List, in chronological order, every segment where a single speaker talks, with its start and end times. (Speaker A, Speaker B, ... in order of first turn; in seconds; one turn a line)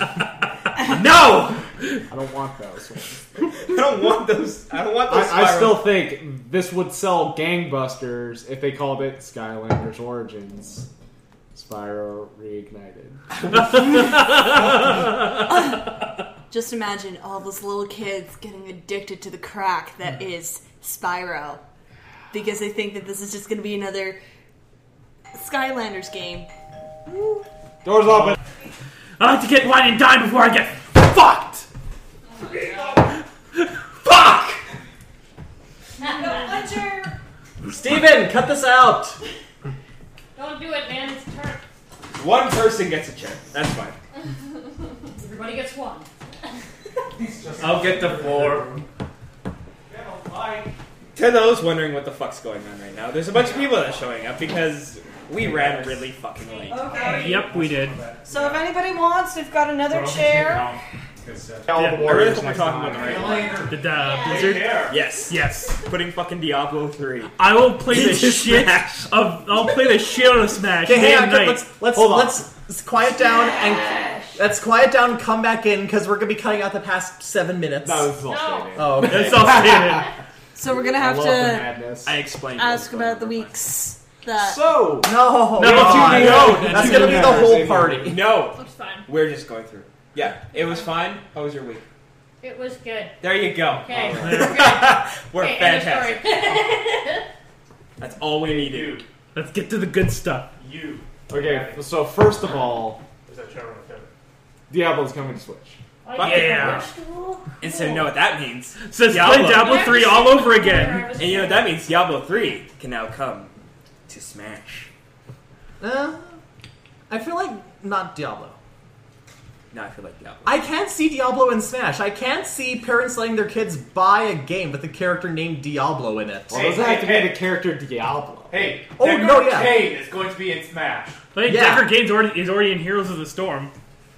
Speaker A: 0.8-1.7
Speaker B: 2.1-3.5
Speaker A: 3.5-5.9
Speaker B: 5.1-10.9
Speaker B: 11.5-13.2
Speaker C: 15.5-15.8
Speaker C: 16.5-21.6
Speaker C: 22.3-24.2
Speaker C: 25.3-26.5
Speaker B: 27.8-28.4
Speaker D: 29.2-31.7
Speaker E: 32.3-33.1
Speaker A: 34.0-34.6
Speaker E: 36.0-36.8
Speaker C: 36.0-37.2
Speaker F: 37.7-39.2
Speaker E: 40.4-41.6
Speaker A: 42.2-44.0
Speaker E: 45.0-46.1
Speaker B: 47.2-48.8
Speaker G: 47.6-48.8
Speaker B: 49.9-50.7
Speaker A: 51.1-57.1
Speaker G: 55.4-56.0
Speaker E: 56.7-57.2
Speaker C: 56.7-57.4
Speaker G: 56.8-58.6
Speaker D: 57.1-58.0
Speaker C: 58.3-60.7
Speaker G: 59.9-60.8
Speaker B: 61.2-63.6
Speaker D: 61.8-62.2
Speaker A: 62.0-63.5
Speaker G: 62.8-65.0
Speaker E: 63.0-64.6
Speaker D: 63.7-65.8
Speaker A: 64.8-69.1
Speaker D: 67.4-71.7
Speaker F: 70.8-78.2
Speaker B: 71.9-72.4
Speaker B: 77.8-80.0
Speaker E: 78.2-79.0
Speaker F: 78.7-79.6
Speaker D: 79.0-80.1
Speaker E: 79.8-80.1
Speaker C: 80.5-81.7
Speaker B: 80.8-82.2
Speaker A: 82.0-83.7
Speaker C: 82.6-84.8
Speaker B: 84.4-88.2
Speaker F: 85.0-88.2
Speaker D: 85.6-87.1
Speaker A: 85.9-91.8
Speaker E: 88.5-89.1
Speaker E: 90.5-90.9
Speaker E: 92.4-97.2
Speaker A: 93.2-96.3
Speaker D: 94.2-94.6
Speaker A: 98.0-99.0
Speaker G: 98.3-99.0
Speaker D: 99.3-100.5
Speaker G: 100.6-101.9
Speaker B: 101.3-103.0
Speaker G: 103.3-104.1
Speaker B: 104.7-105.8
Speaker E: 106.0-108.1
Speaker A: 106.2-106.9
Speaker D: 106.2-106.9
Speaker A: 107.6-110.2
Speaker D: 108.9-111.1
Speaker E: 109.5-111.8
Speaker A: 111.1-113.5
Speaker A: 114.1-114.9
Speaker F: 115.8-116.4
Speaker F: 117.1-118.6
Speaker A: 119.7-120.6
Speaker F: 120.5-126.7
Speaker B: 126.5-128.8
Speaker G: 126.5-127.4
Speaker G: 128.5-131.2
Speaker F: 129.0-129.9
Speaker D: 131.3-133.7
Speaker F: 131.4-131.9